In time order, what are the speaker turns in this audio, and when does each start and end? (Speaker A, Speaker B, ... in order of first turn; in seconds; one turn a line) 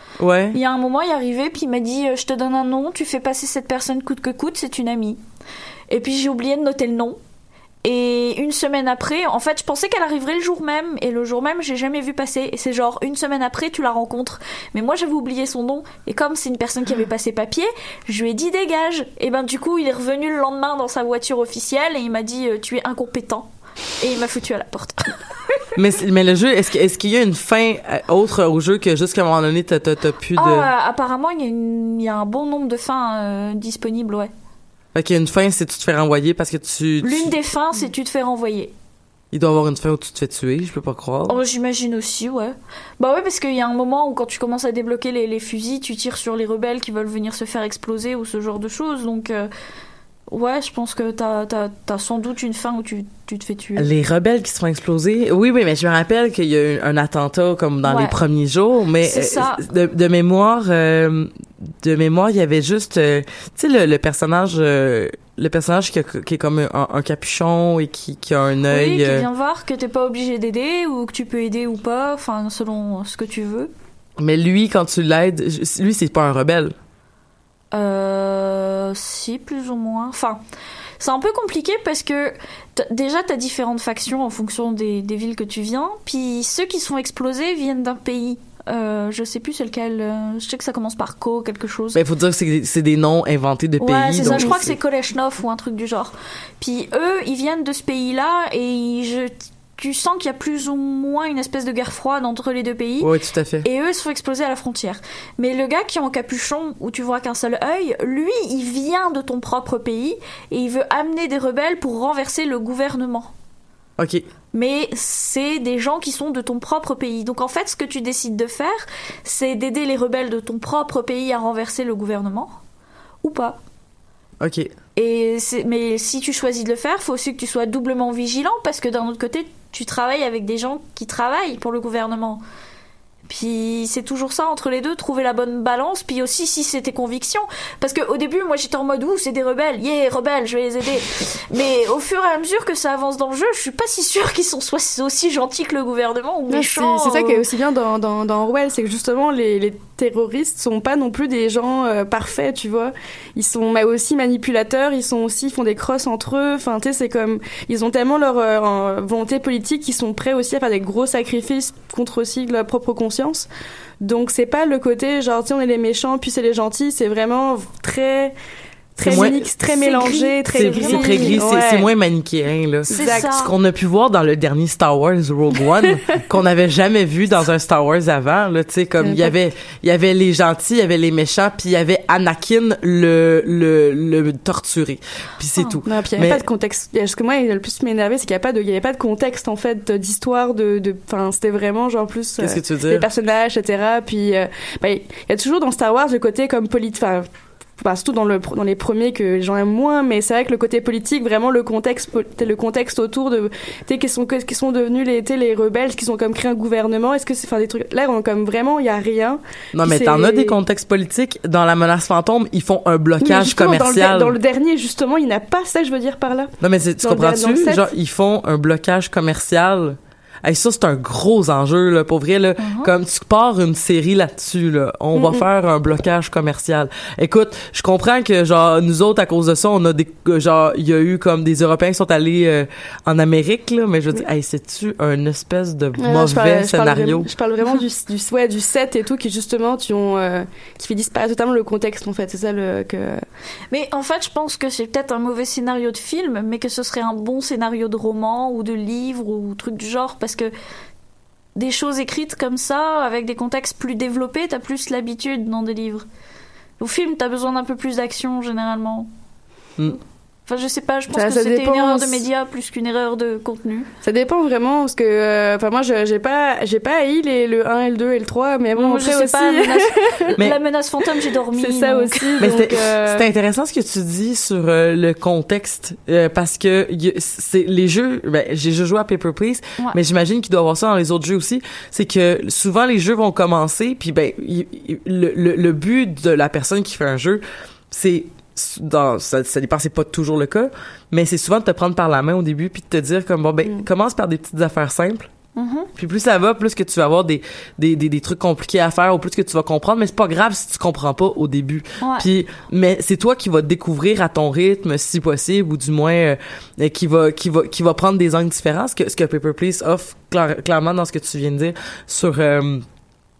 Speaker A: 0.2-0.6
Speaker B: 0.5-5.2
Speaker B: 5.9-7.2
Speaker B: 7.8-23.5
Speaker B: 24.0-25.2
Speaker A: 25.7-30.7
Speaker B: 30.4-34.3
Speaker A: 34.9-37.3
Speaker B: 37.0-38.7
Speaker A: 39.3-41.4
Speaker B: 41.3-49.5
Speaker B: 50.3-53.9
Speaker A: 53.8-69.3
Speaker B: 57.8-58.1
Speaker B: 59.0-59.6
Speaker B: 68.7-73.7
Speaker A: 74.2-76.7
Speaker B: 77.7-80.4
Speaker B: 81.0-92.0
Speaker A: 91.9-94.7
Speaker B: 93.8-103.1
Speaker A: 103.0-103.7
Speaker B: 103.6-113.3
Speaker A: 114.0-114.2
Speaker B: 114.5-122.5
Speaker B: 123.2-123.6
Speaker A: 124.4-124.7
Speaker B: 125.0-132.4
Speaker B: 133.3-147.4
Speaker C: 146.5-163.5
Speaker C: 164.0-168.3
Speaker C: 168.9-171.9
Speaker B: 169.0-171.4
Speaker A: 169.0-169.5
Speaker A: 170.5-186.4
Speaker C: 172.9-173.2
Speaker B: 172.9-173.5
Speaker C: 179.0-179.3
Speaker C: 185.8-197.2
Speaker A: 192.4-193.1
Speaker C: 197.8-210.6
Speaker A: 209.7-214.3
Speaker C: 213.2-216.5
Speaker A: 216.6-237.3
Speaker C: 217.0-217.8
Speaker B: 222.6-222.9
Speaker C: 225.1-225.4
Speaker C: 236.0-243.2
Speaker B: 243.7-250.5
Speaker B: 251.6-256.0
Speaker B: 256.8-259.1
Speaker B: 260.5-263.9
Speaker C: 261.1-262.2
Speaker C: 264.0-270.4
Speaker B: 268.7-272.5
Speaker C: 271.5-273.3
Speaker A: 272.4-295.3
Speaker B: 295.6-295.9
Speaker A: 295.9-312.8
Speaker B: 302.0-302.3